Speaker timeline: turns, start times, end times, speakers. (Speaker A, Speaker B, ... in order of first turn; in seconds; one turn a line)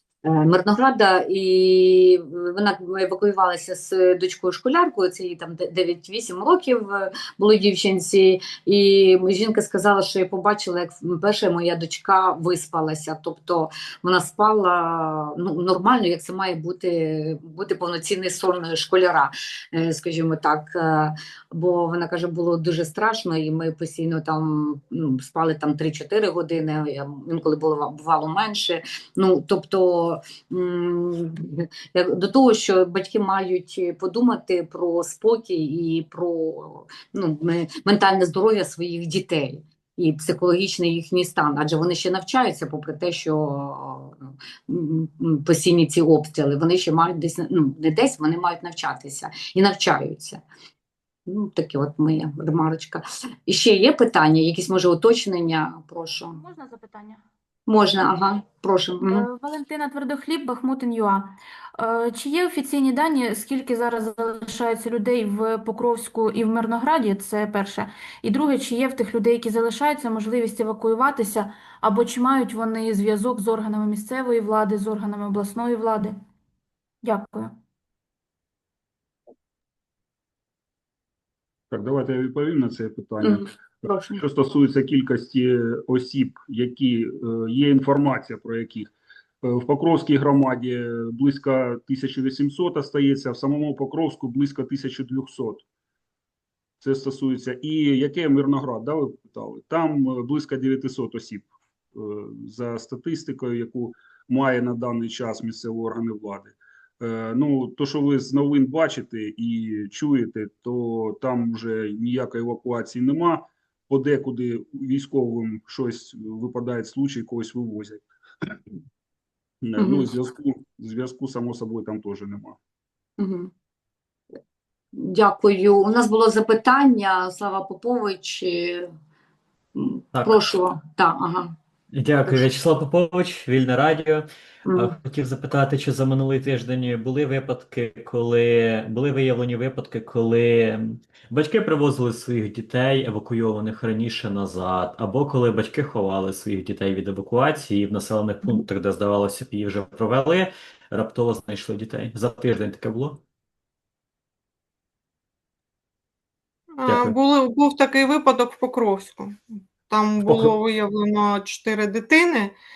Speaker A: 0.2-44.1
Speaker A: 44.7-50.4
Speaker A: 51.3-56.4
Speaker B: 56.4-57.2
Speaker A: 57.7-59.3
Speaker B: 59.0-76.2
Speaker B: 77.0-77.6
Speaker C: 81.7-83.5
Speaker A: 83.2-84.2
Speaker C: 84.2-88.9
Speaker C: 89.4-95.6
Speaker C: 96.8-118.0
Speaker C: 119.6-122.6
Speaker A: 119.8-120.1
Speaker A: 123.2-123.5
Speaker A: 124.9-128.9
Speaker A: 129.8-131.6
Speaker D: 130.1-130.5
Speaker D: 131.9-153.2
Speaker A: 134.7-135.0
Speaker E: 156.8-162.6
Speaker D: 156.9-157.2
Speaker D: 160.2-160.5